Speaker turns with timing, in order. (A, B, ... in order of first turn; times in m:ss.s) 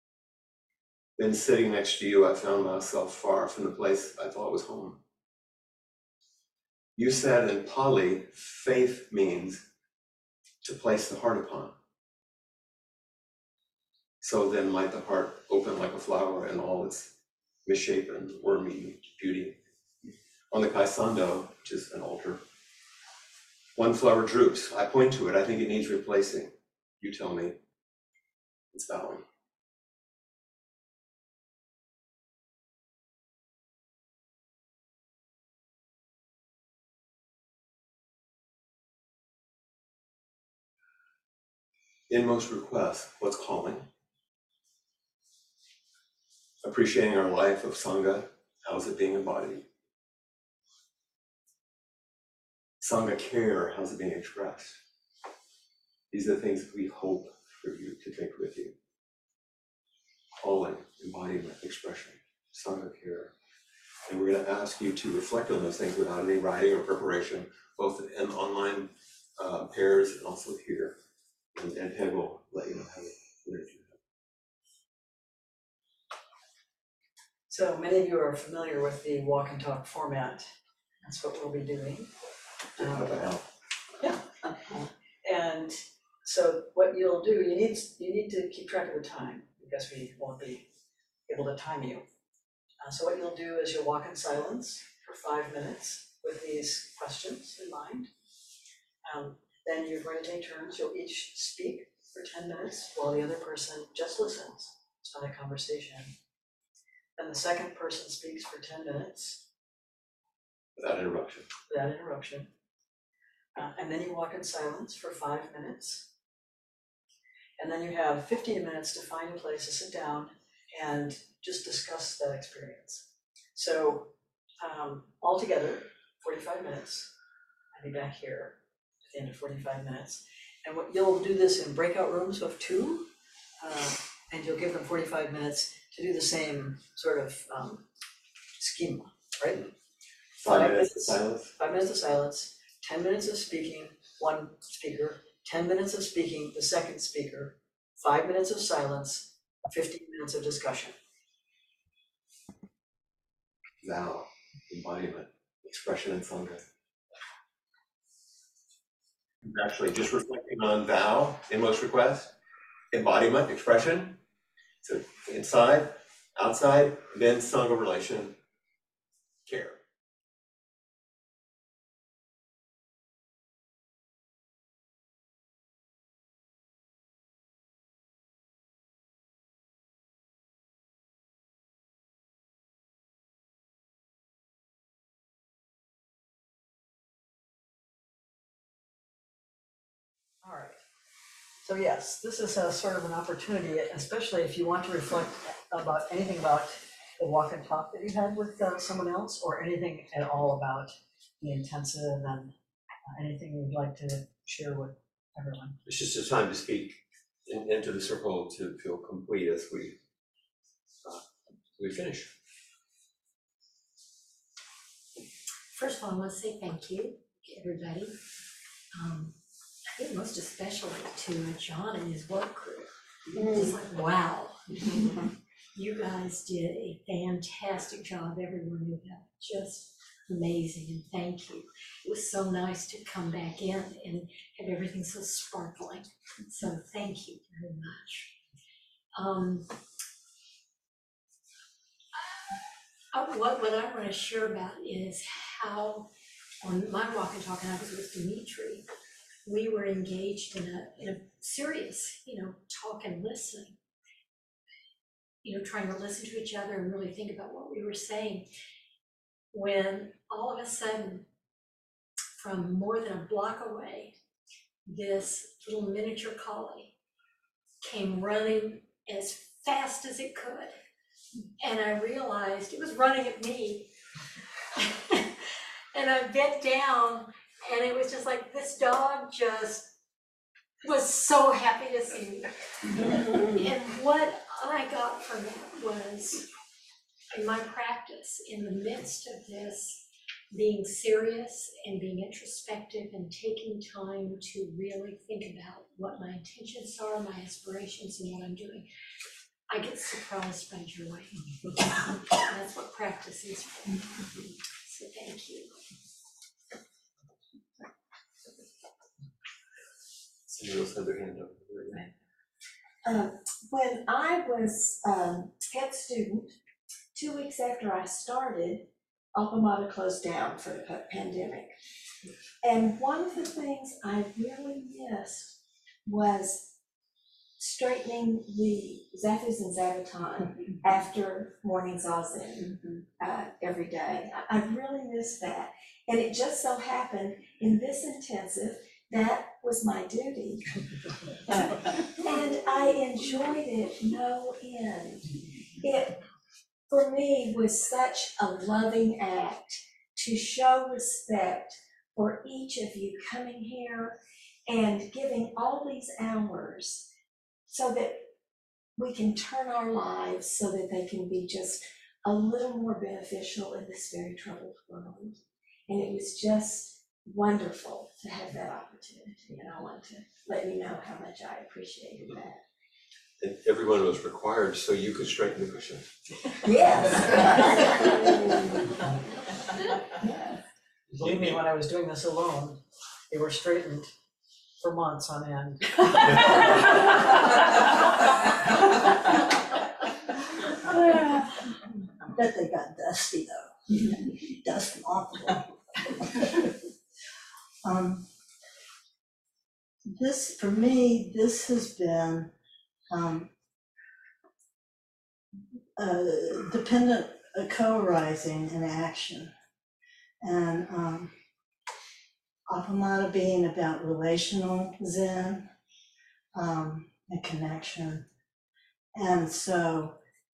0:01.2-0:05.0 A
0:07.0-0:09.6 A
0:10.6-0:11.7 A
0:14.2-0:17.1 A
0:17.6-0:19.6 A
0:20.5-0:22.4 A
0:23.7-0:27.6 A
0:28.7-0:29.2 A
0:42.1-0:43.9 A
0:46.6-0:49.6 A
0:52.8-0:54.8 A
0:56.1-0:58.7 A
1:00.4-1:03.3 A
1:04.0-1:11.0 A
1:11.5-1:14.0 A
1:17.5-1:20.5 B
1:21.0-1:22.1 B
1:22.8-1:23.3 B
1:22.8-1:23.4 A
1:25.2-1:30.7 B
1:31.3-1:32.0 B
1:32.8-1:38.1 B
1:39.0-1:46.1 B
1:47.2-1:49.4 B
1:50.8-1:51.5 A
1:51.7-1:52.5 B
1:53.6-1:56.1 B
1:57.6-2:07.1 B
2:07.7-2:13.1 B
2:13.6-2:17.8 B
2:18.6-2:19.6 B
2:20.4-2:30.9 B
2:20.4-2:21.5 A
2:33.8-2:36.6 A
2:39.4-2:42.3 A
2:42.9-2:44.2 A
2:44.8-2:48.4 A
2:49.4-2:49.8 A
3:10.4-3:10.8 B
3:11.6-3:22.5 B
3:23.1-3:25.8 B
3:25.8-3:30.0 A
3:31.8-3:32.3 A
3:35.7-3:38.2 C
3:38.9-3:39.3 C
3:39.9-3:45.1 C
3:45.7-3:58.3 C
3:59.1-3:59.7 C
4:03.1-4:06.1 C
4:06.6-4:08.9 C
4:09.4-4:13.8 C
4:15.4-4:18.5 C
4:19.5-4:21.2 C
4:22.4-4:24.2 C
4:24.8-4:26.9 C
4:27.8-4:30.7 C
4:31.6-4:33.9 C
4:34.8-4:35.3 C
4:35.9-4:39.9 C
4:40.8-4:42.5 C
4:43.0-4:46.4 C
4:47.3-4:58.9 C
4:59.7-5:01.4 C
5:02.3-5:04.3 C
5:04.8-5:05.7 C
5:10.5-5:12.1 A
5:13.0-5:16.5 D
5:17.1-5:21.7 D
5:22.6-5:26.7 D
5:27.6-5:40.6 D
5:41.5-5:46.2 D
5:46.9-5:57.1 D
5:57.7-5:58.3 D
5:59.0-6:12.6 D
6:13.4-6:16.1 A
6:16.6-6:18.4 D
6:21.2-6:21.6 A
6:21.2-6:24.1 B
6:24.8-6:26.6 B
6:30.9-6:31.4 E
6:32.3-6:35.6 E
6:37.8-6:38.2 E
6:40.1-6:42.5 E
6:43.1-6:43.5 E
6:46.0-6:49.5 E
6:50.4-6:51.3 E
6:52.7-6:55.7 E
6:56.5-6:58.2 E
6:59.1-7:00.1 E